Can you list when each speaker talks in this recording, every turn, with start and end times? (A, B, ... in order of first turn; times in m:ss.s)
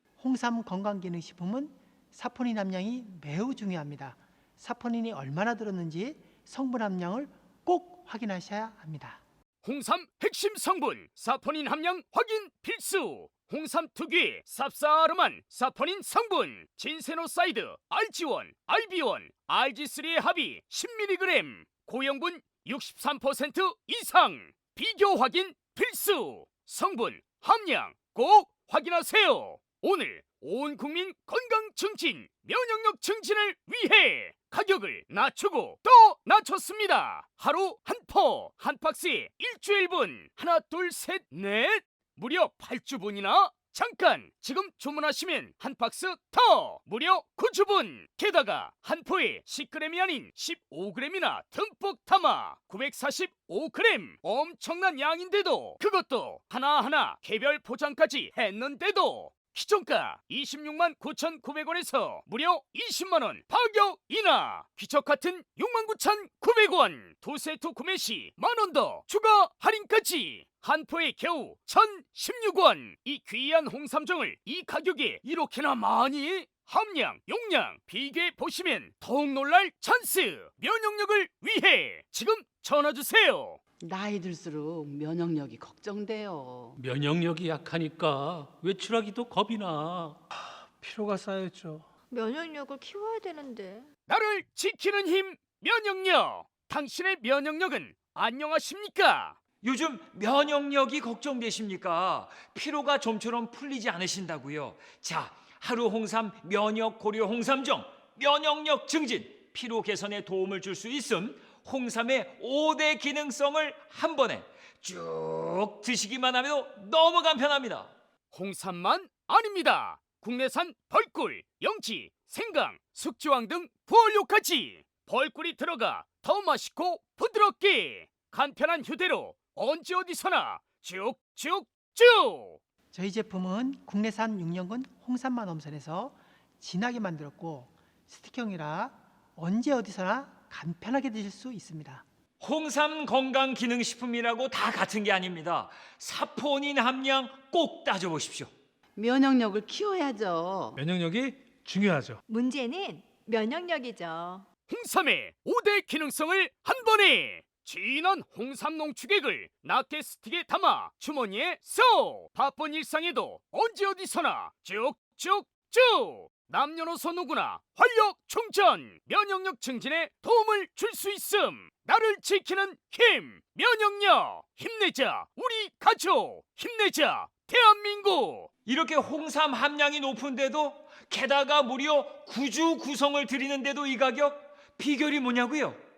0:00.2-0:09.2 A
0:09.6-1:23.6 B
1:23.8-1:26.8 C
1:26.8-1:30.2 D
1:30.8-1:31.9 E
1:32.1-1:33.9 F
1:34.1-1:39.4 B
1:39.6-1:57.9 G
1:58.3-2:12.6 B
2:12.9-2:22.0 A
2:22.4-2:28.5 G
2:29.0-2:30.8 C
2:30.8-2:32.2 E
2:31.0-2:32.2 D
2:32.3-2:34.5 F
2:34.7-2:58.5 B
2:58.7-3:05.8 G